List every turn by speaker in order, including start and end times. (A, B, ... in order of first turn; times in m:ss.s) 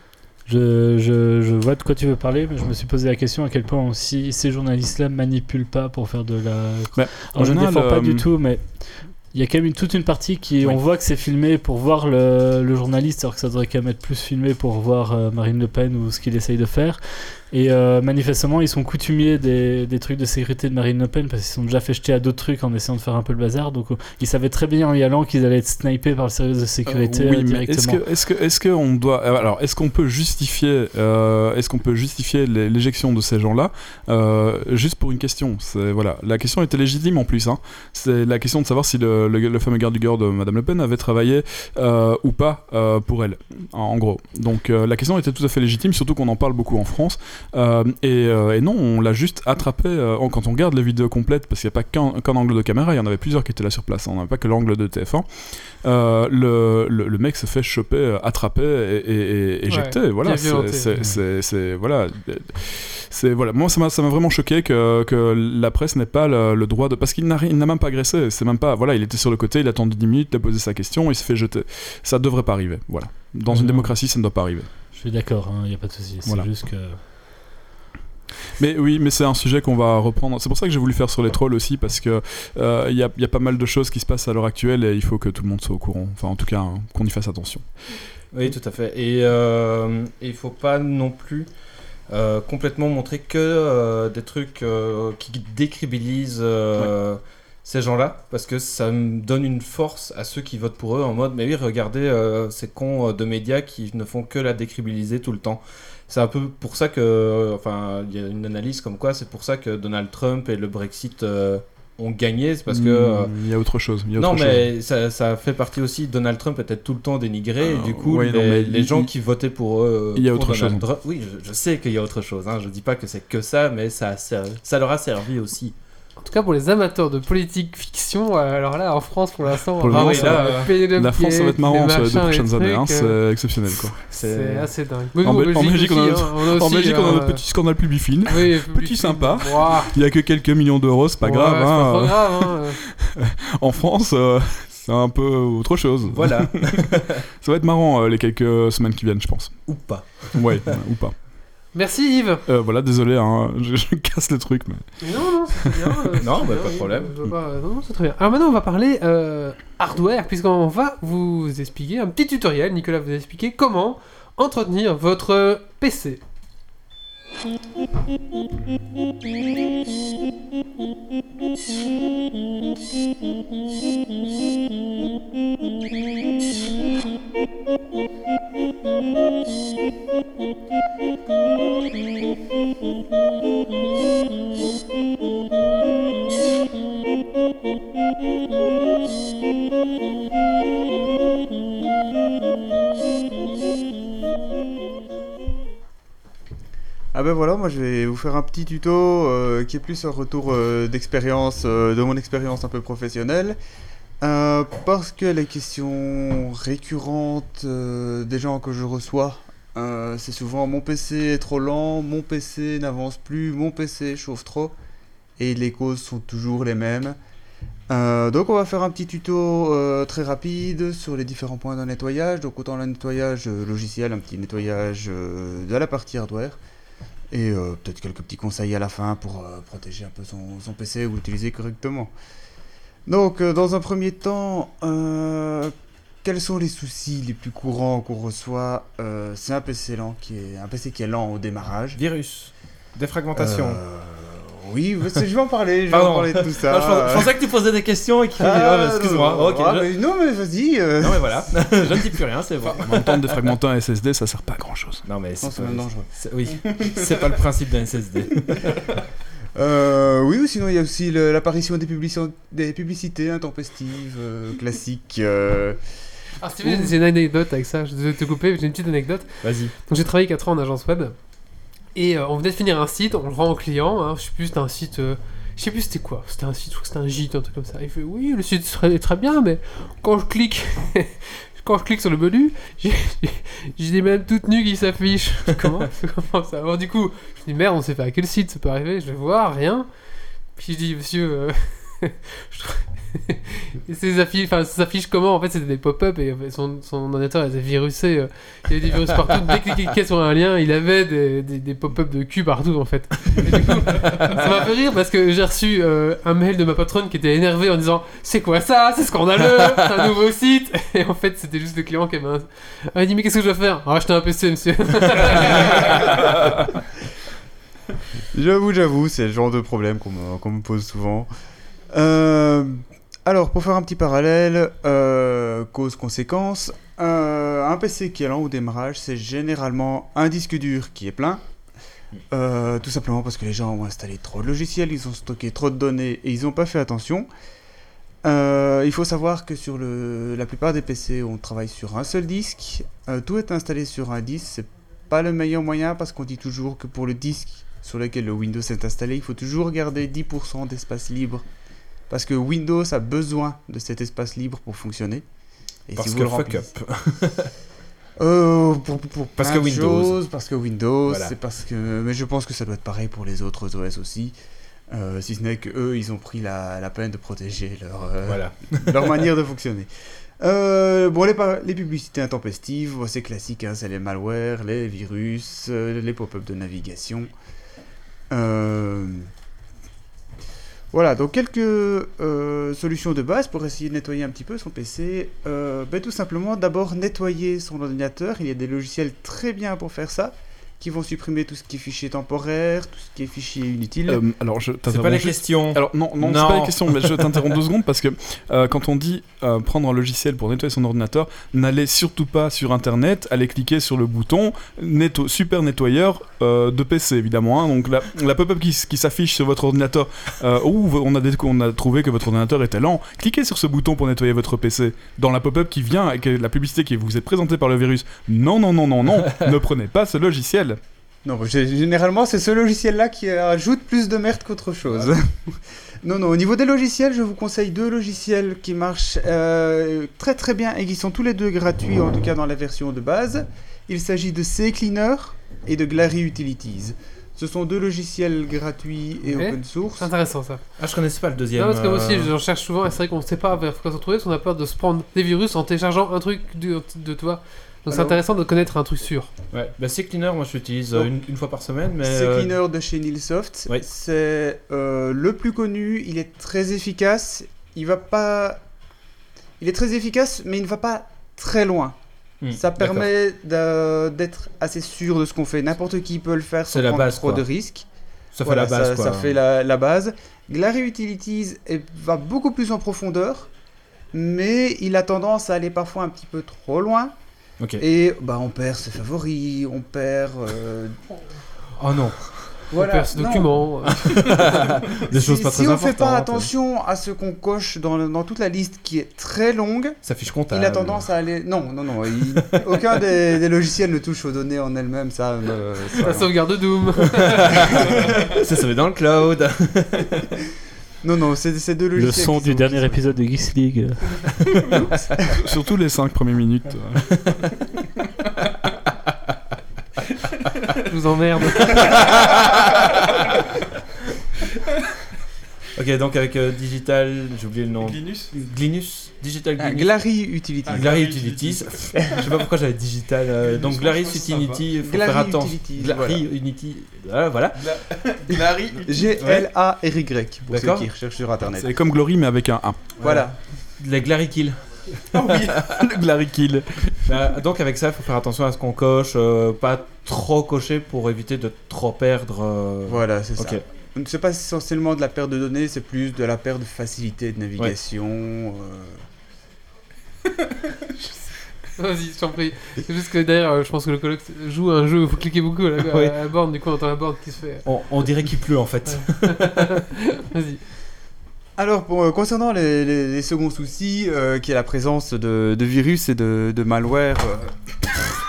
0:00.5-0:28.0 A
0:07.0-0:08.3 B
0:26.9-1:14.7 B
0:59.7-1:01.0 C
1:13.5-1:13.9 A
1:14.9-1:17.0 A
1:18.6-1:27.6 B
1:28.3-1:31.5 D
1:32.1-1:53.3 D
1:52.7-1:54.7 B
1:54.2-2:05.8 D
1:57.6-1:59.1 B
2:00.2-2:00.8 B
2:06.2-2:13.2 C
2:09.8-2:14.0 B
2:09.9-2:10.7 D
2:14.1-2:17.4 C
2:14.1-2:14.7 D
2:15.2-2:26.9 B
2:18.3-2:20.0 C
2:21.2-2:22.8 C
2:26.1-2:27.2 D
2:27.4-2:29.6 B
2:29.7-2:30.7 D
2:30.3-2:31.2 B
2:31.7-2:32.4 C
2:32.5-2:34.9 B
2:35.0-2:46.2 C
2:36.2-2:37.1 D
3:17.1-3:23.6 E
3:24.2-3:34.7 E
3:35.4-3:37.2 E
3:37.9-3:46.6 E
3:47.3-3:52.1 E
3:53.1-4:02.0 E
4:02.0-4:03.8 D
4:03.4-4:07.3 E
4:05.9-4:09.9 D
4:08.4-4:11.7 E
4:11.0-4:13.5 D
4:12.8-4:15.0 B
4:15.0-4:18.8 D
4:15.4-4:16.1 E
4:19.6-4:25.8 E
4:26.4-4:31.2 C
4:29.4-4:29.7 D
4:32.0-4:49.9 C
4:50.6-5:15.8 C
5:18.3-5:21.3 E
5:21.9-5:31.4 E
5:32.3-5:37.3 E
5:38.2-5:51.4 E
5:52.1-5:55.2 E
5:55.9-5:56.7 E
5:56.0-5:57.5 D
5:58.2-6:04.4 E
5:59.4-6:00.2 D
6:01.1-6:01.3 D
6:04.9-6:09.9 E
6:08.3-6:09.2 D
6:10.4-6:17.3 E
6:18.3-6:19.3 E
6:20.9-6:34.2 E
6:34.1-7:00.8 B
6:34.9-6:37.4 D
7:01.2-7:20.1 E
7:19.2-7:20.6 C
7:20.8-7:22.3 D
7:21.6-7:29.3 C
7:27.9-7:28.2 E
7:29.5-7:32.6 D
7:32.0-7:38.6 E
7:39.6-7:42.0 E
7:42.4-7:43.1 D
7:42.5-7:47.8 E
7:46.7-7:47.4 D
7:48.3-7:49.4 D
7:48.4-7:53.5 E
7:54.1-7:57.1 E
7:57.8-8:01.0 E
8:01.8-8:02.6 D
8:02.7-8:04.4 E
8:02.7-8:04.5 C
8:04.0-8:06.5 D
8:05.1-8:10.0 E
8:10.0-8:11.1 D
8:10.5-8:16.3 E
8:12.4-8:12.8 D
8:16.0-8:17.7 C
8:17.2-8:20.3 D
8:17.8-8:18.1 E
8:21.0-8:23.0 E
8:22.0-8:24.4 A
8:24.7-8:27.3 B
8:27.1-8:27.4 D
8:30.6-8:30.8 B
8:30.9-8:31.9 C
8:31.8-8:32.8 D
8:35.8-8:39.9 D
8:37.8-8:38.3 B
8:39.6-8:40.9 E
8:40.7-8:42.2 B
8:40.7-8:48.4 D
8:43.4-8:44.6 B
8:44.8-8:46.2 E
8:47.6-8:48.9 B
8:48.7-8:51.8 E
8:49.2-8:49.5 D
8:50.5-8:50.9 D
8:51.6-8:53.0 B
8:53.0-8:54.6 D
8:53.0-8:53.4 E
8:55.1-8:57.2 B
8:55.2-8:55.7 D
8:57.1-9:03.6 D
9:02.9-9:09.0 E
9:11.8-9:17.7 C
9:15.9-9:16.2 D
9:17.6-9:19.8 D
9:18.9-9:20.6 C
9:21.6-9:27.6 E